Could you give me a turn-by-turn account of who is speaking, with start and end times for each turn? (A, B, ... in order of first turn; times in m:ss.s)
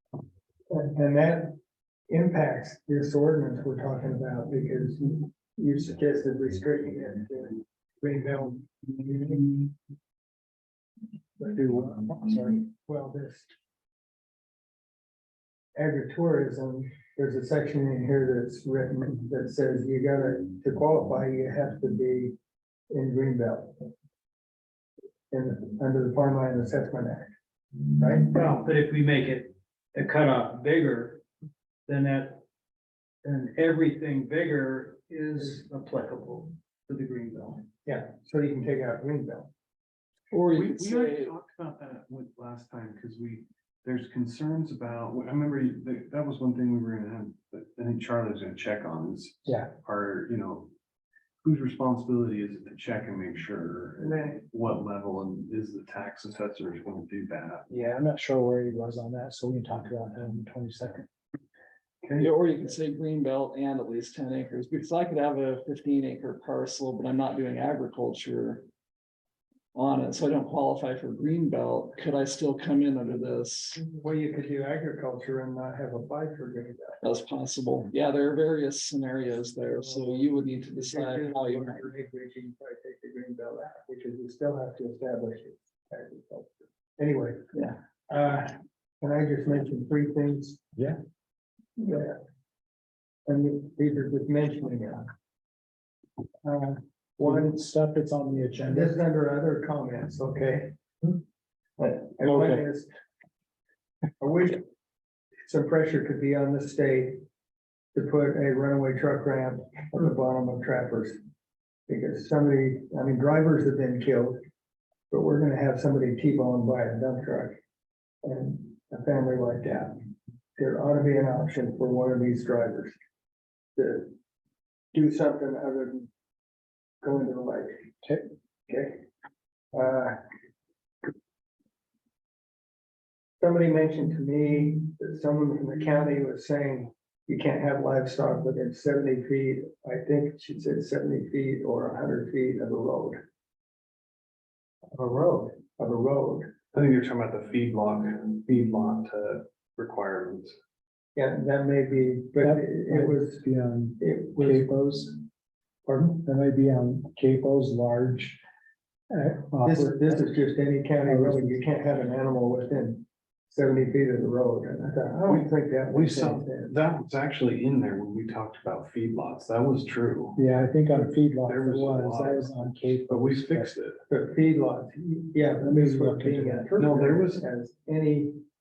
0:00.7-0:01.6 A
0:02.1-0:09.6 A
0:11.4-0:12.6 B
0:12.8-0:13.5 A
0:15.7-0:22.3 A
0:22.9-0:23.9 A
0:25.3-0:27.3 A
0:28.0-0:28.3 A
0:28.3-0:31.2 C
0:31.9-0:32.4 C
0:33.2-0:37.7 C
0:37.8-0:39.5 A
0:40.3-0:41.3 D
0:40.5-0:50.7 E
0:51.4-0:57.6 E
0:54.0-0:54.4 A
0:57.7-1:01.0 B
1:02.0-1:02.3 E
1:02.2-1:08.7 D
1:09.7-1:13.8 D
1:13.8-1:17.0 A
1:17.0-1:21.9 D
1:19.6-1:30.6 A
1:31.8-1:32.1 A
1:33.3-1:35.0 A
1:36.4-1:37.6 A
1:37.2-1:39.0 B
1:38.7-1:41.2 A
1:41.8-1:42.9 A
1:44.2-1:44.6 A
1:45.4-1:47.2 A
1:47.9-1:51.2 A
1:51.9-1:54.4 A
1:55.1-1:57.6 A
1:58.2-2:03.0 A
2:03.7-2:04.1 A
2:04.9-2:06.1 A
2:07.0-2:07.8 A
2:08.7-2:09.0 A
2:09.7-2:10.2 A
2:13.4-2:23.2 A
2:24.9-2:26.5 A
2:26.7-2:30.6 E
2:31.1-2:33.4 A
2:32.4-2:35.2 B
2:34.0-2:34.6 A
2:35.8-2:36.2 A
2:36.1-2:38.4 B
2:39.1-2:40.3 B
2:39.6-2:46.7 A
2:41.0-2:41.6 B
2:45.3-2:50.4 E
2:50.4-2:53.7 B
2:51.4-2:54.0 E
2:54.1-2:58.4 A
2:55.6-2:56.7 B
2:56.8-2:57.4 E